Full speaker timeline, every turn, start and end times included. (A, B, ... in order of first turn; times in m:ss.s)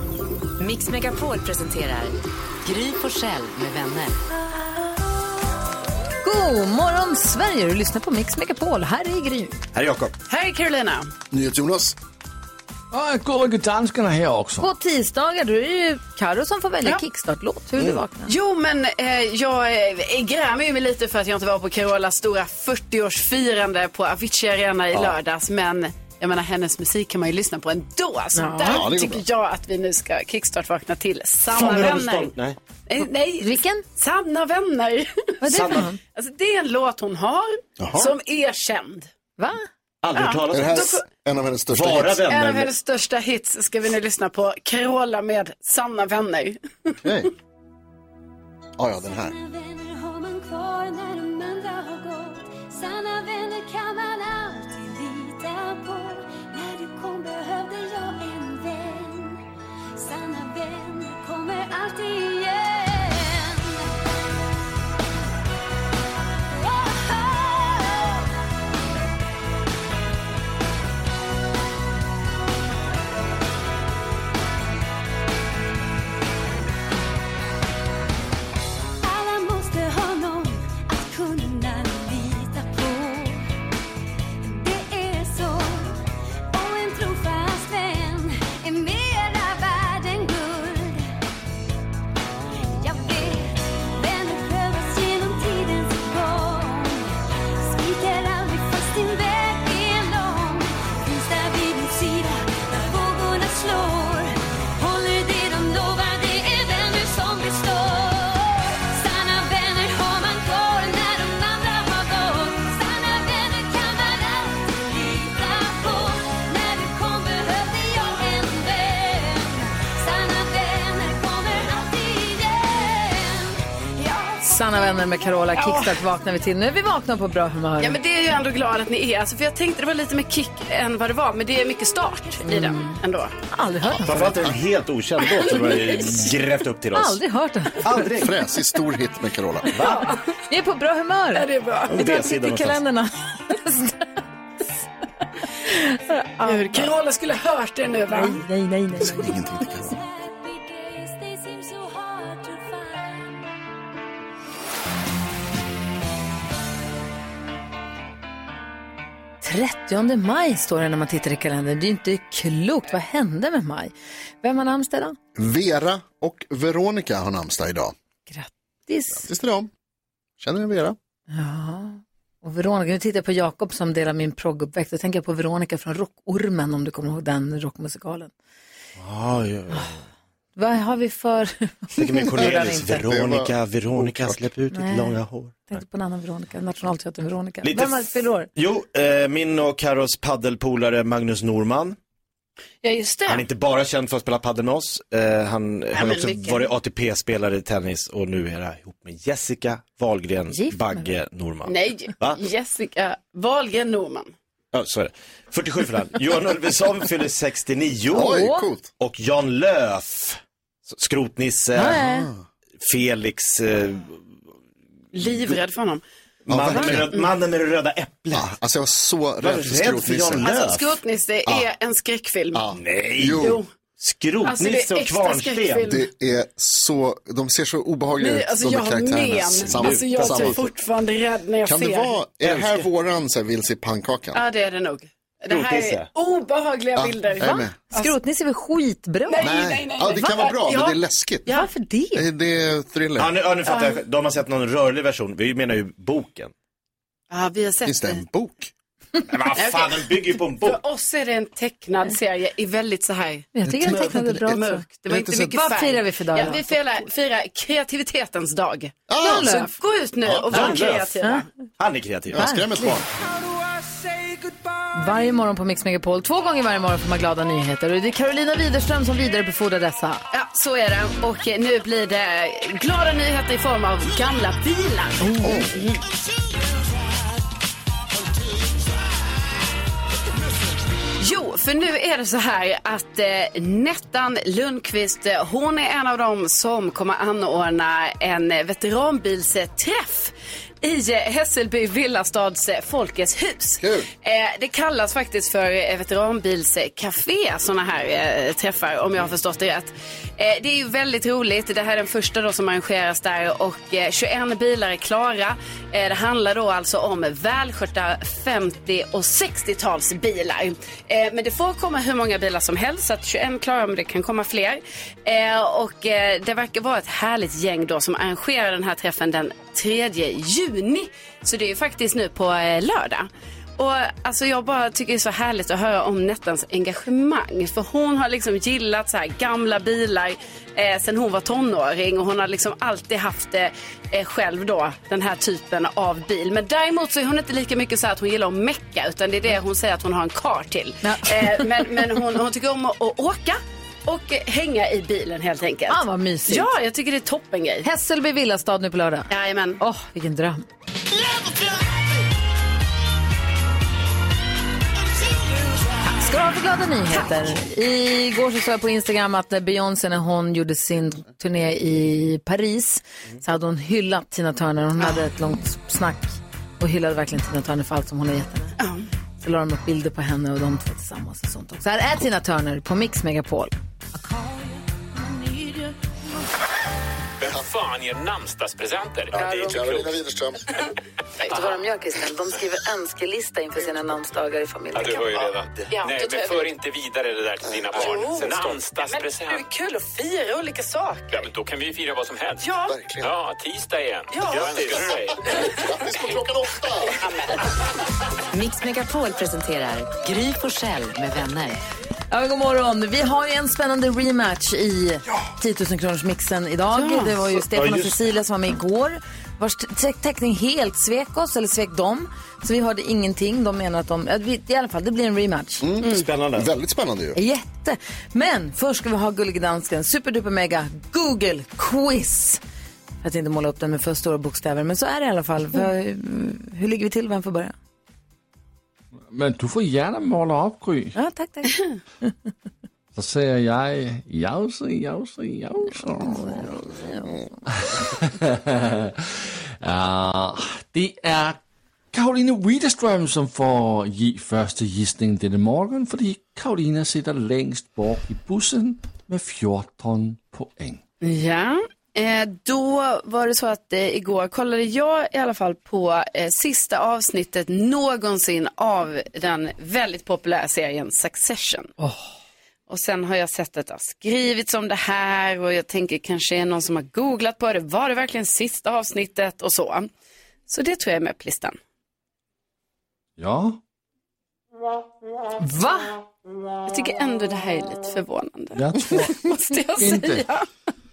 0:00.6-0:04.2 A
0:06.2-0:09.6 B
0:09.7-0:10.1 C
0:10.3-0:11.1 D
0:11.3-0:12.0 E
0:12.9-0:14.7 F
0:14.6-0:18.3 B
0:18.3-0:32.3 D
0:28.4-0:28.9 B
0:28.6-0:29.2 E
0:31.5-0:32.6 C
0:32.9-0:39.1 D
0:33.4-0:33.8 B
0:35.4-0:36.0 B
0:35.5-0:35.9 C
0:37.8-0:38.1 E
0:39.4-0:39.7 B
0:40.0-0:40.9 C
0:40.1-0:41.0 D
0:40.5-0:42.2 E
0:41.7-0:42.7 C
0:42.3-0:47.0 D
0:47.0-0:47.3 E
0:48.8-0:49.4 E
0:49.0-0:59.4 G
1:00.0-1:04.0 G
1:06.6-1:08.3 G
1:19.0-1:23.4 G
1:24.4-1:26.0 G
1:26.5-1:31.1 G
1:32.7-2:04.4 G
2:04.4-2:08.0 B
2:05.6-2:06.0 D
2:07.8-2:13.3 D
2:12.5-2:13.0 B
2:13.5-2:14.4 B
2:14.0-2:17.2 C
2:15.2-2:16.3 D
2:16.9-2:17.9 B
2:17.8-2:18.3 C
2:18.2-2:19.8 E
2:19.7-2:20.1 C
2:20.5-2:21.5 B
2:21.4-2:22.2 D
2:21.9-2:22.8 C
2:22.0-2:24.0 B
2:25.6-2:26.9 B
2:26.4-2:28.4 D
2:28.1-2:29.4 B
2:29.0-2:30.0 E
2:29.8-2:33.4 G
2:39.4-2:45.2 B
2:45.4-2:47.9 E
2:48.3-2:49.3 B
2:49.2-2:49.7 E
2:50.4-2:51.0 E
2:51.3-2:58.3 B
2:59.0-3:00.0 C
3:00.6-3:02.9 B
3:02.0-3:05.6 C
3:02.4-3:04.4 E
3:04.7-3:08.5 B
3:07.6-3:12.0 C
3:12.8-3:13.5 D
3:13.3-3:22.4 C
3:15.9-3:16.7 D
3:20.5-3:21.1 B
3:21.7-3:24.3 D
3:24.7-3:28.3 C
3:28.1-3:28.9 E
3:28.1-3:28.7 B
3:29.0-3:30.4 C
3:30.9-3:32.0 C
3:31.8-3:32.3 B
3:31.9-3:32.4 E
3:32.8-3:34.2 C
3:35.1-3:36.0 D
3:36.5-3:38.5 C
3:36.5-3:37.1 E
3:36.8-3:37.2 D
3:38.3-3:40.5 E
3:39.4-3:40.9 C
3:40.4-3:42.6 D
3:42.5-3:43.6 E
3:42.7-3:45.9 C
3:43.3-3:43.7 D
3:44.4-3:46.1 D
3:45.9-3:50.7 E
3:48.2-3:52.2 D
3:49.8-3:50.6 C
3:51.6-3:54.4 E
3:52.4-3:52.8 C
3:54.3-3:58.1 D
3:55.5-3:56.1 C
3:57.0-3:57.8 E
3:57.4-3:59.6 B
3:59.3-4:01.7 D
3:59.4-4:01.5 E
4:01.5-4:02.3 B
4:02.1-4:03.4 E
4:03.2-4:06.5 C
4:03.7-4:04.0 D
4:07.3-4:08.2 D
4:07.9-4:08.7 E
4:09.3-4:10.8 C
4:09.6-4:21.5 D
4:13.6-4:16.8 B
4:19.1-4:19.5 E
4:19.2-4:19.7 B
4:20.3-4:20.6 E
4:20.5-4:21.2 C
4:21.2-4:21.4 B
4:21.8-4:22.9 C
4:22.3-4:23.1 E
4:22.4-4:23.0 B
4:24.9-4:30.2 B
4:30.3-4:36.0 D
4:35.2-4:35.6 B
4:35.4-4:35.7 E
4:41.2-5:47.9 D
4:53.8-4:54.1 E
5:41.0-5:41.7 B
5:45.9-5:46.7 B
5:47.8-5:49.3 B
5:49.3-5:49.8 D
5:49.8-5:50.7 B
5:56.2-6:08.8 B
6:08.8-6:09.1 D
6:09.4-6:13.7 B
6:14.2-6:14.6 G
6:15.2-6:15.8 G
6:17.4-6:20.2 H
6:19.4-6:19.8 B
6:19.4-6:20.6 E
6:21.4-6:25.6 B
6:24.9-6:29.6 H
6:25.9-6:26.8 D
6:27.9-6:31.5 D
6:31.3-6:32.7 H
6:32.6-6:33.0 D
6:32.9-6:33.3 E
6:33.2-6:35.5 H
6:34.3-6:35.8 D
6:35.0-6:37.2 E
6:37.0-6:37.6 D
6:38.5-6:41.8 A
6:42.3-6:55.8 B
6:46.9-6:47.4 D
6:47.6-6:48.2 C
6:55.8-6:57.4 E
6:56.0-6:56.7 C
6:57.4-7:02.6 B
7:03.2-7:07.8 B
7:09.3-7:11.2 F
7:11.2-7:12.3 B
7:13.2-7:16.6 F
7:15.9-7:17.6 B
7:17.8-7:21.6 F
7:22.1-7:31.0 F
7:31.2-7:41.9 D
7:42.9-7:50.1 D
7:50.7-7:51.8 D
7:53.4-7:53.8 F
7:55.6-7:56.2 B
7:56.8-8:00.7 D
7:58.8-7:59.4 F
8:00.0-8:00.5 F